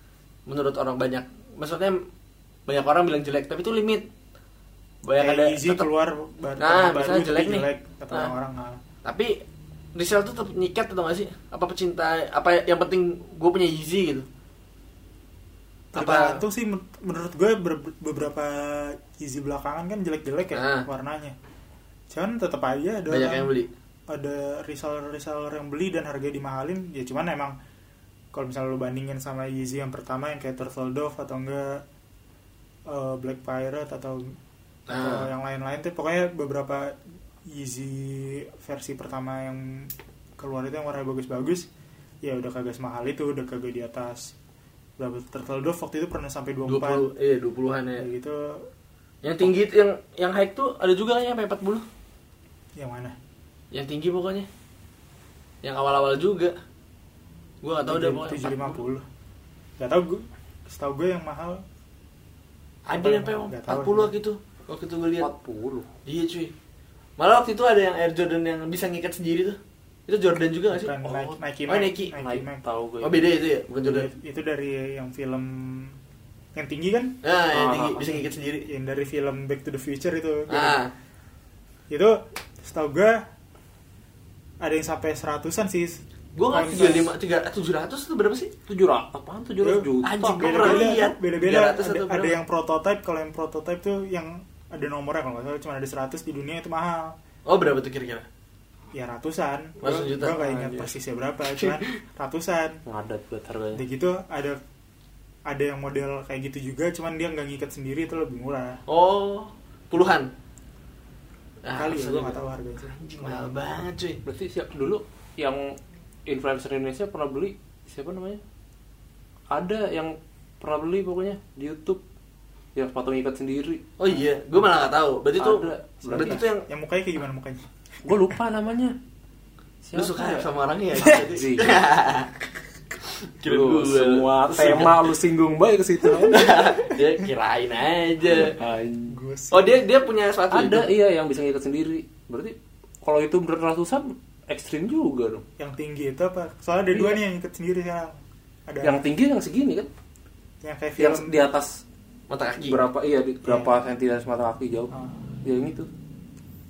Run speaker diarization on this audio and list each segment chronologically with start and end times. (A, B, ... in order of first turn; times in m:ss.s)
0:00.5-0:02.0 A
0:02.7-0:04.1 A
0:05.0-0:05.9 A
0:05.2-0:08.8 B
0:06.6-0:08.3 A
0:09.0-0:09.4 A
0:10.0-0:14.2 A
0:15.9-0:21.4 B
0:16.0-0:16.4 A
0:20.5-0:20.9 A
0:22.1-0:23.5 B
0:23.1-0:23.7 A
0:24.1-0:27.5 B
0:28.3-0:31.8 B
0:32.9-0:34.4 B
0:34.9-0:35.3 A
0:34.9-0:41.7 B
0:42.2-0:44.3 B
0:45.0-0:47.0 B
0:46.7-0:48.0 A
0:48.0-0:48.7 B
0:49.2-0:51.8 A
0:52.8-0:53.2 B
0:53.7-0:54.5 A
0:55.6-0:56.5 A
0:57.6-0:58.8 A
0:57.9-0:59.0 B
0:59.8-1:01.6 B
1:02.9-1:05.3 A
1:03.0-1:04.1 B
1:05.2-1:05.9 C
1:06.0-1:06.5 A
1:07.2-1:09.6 A
1:10.1-1:12.1 A
1:10.7-1:12.6 B
1:12.2-1:13.2 C
1:13.0-1:14.1 A
1:13.8-1:16.0 B
1:16.5-1:17.2 B
1:17.2-1:18.7 A
1:17.5-1:18.1 C
1:17.9-1:20.8 B
1:20.5-1:20.9 A
1:21.9-1:23.2 B
1:24.6-1:27.1 B
1:26.4-1:28.5 A
1:28.7-1:31.0 C
1:29.6-1:37.2 B
1:30.0-1:32.4 A
1:37.4-1:38.2 A
1:38.9-1:42.8 B
1:39.8-1:40.4 A
1:40.3-1:40.9 C
1:41.6-1:41.9 A
1:42.8-1:43.8 C
1:43.7-1:44.6 B
1:45.4-1:48.8 B
1:48.9-1:50.3 A
1:51.6-1:54.2 A
1:51.7-1:53.6 B
1:54.2-1:58.4 C
1:59.5-2:02.0 C
2:02.7-2:03.8 C
2:04.0-2:06.7 A
2:05.4-2:06.4 C
2:06.0-2:07.6 B
2:08.0-2:09.0 C
2:09.8-2:11.8 C
2:09.9-2:12.3 A
2:13.2-2:15.1 A
2:13.4-2:16.6 C
2:16.2-2:18.6 A
2:18.4-2:19.2 C
2:19.1-2:19.8 B
2:19.5-2:20.9 A
2:20.5-2:25.4 C
2:25.6-2:29.0 B
2:26.9-2:27.2 C
2:28.8-2:29.9 C
2:30.6-2:31.4 B
2:31.0-2:31.8 C
2:32.3-2:32.8 A
2:32.6-2:34.9 C
2:33.4-2:33.8 B
2:34.9-2:35.2 B
2:35.4-2:35.9 C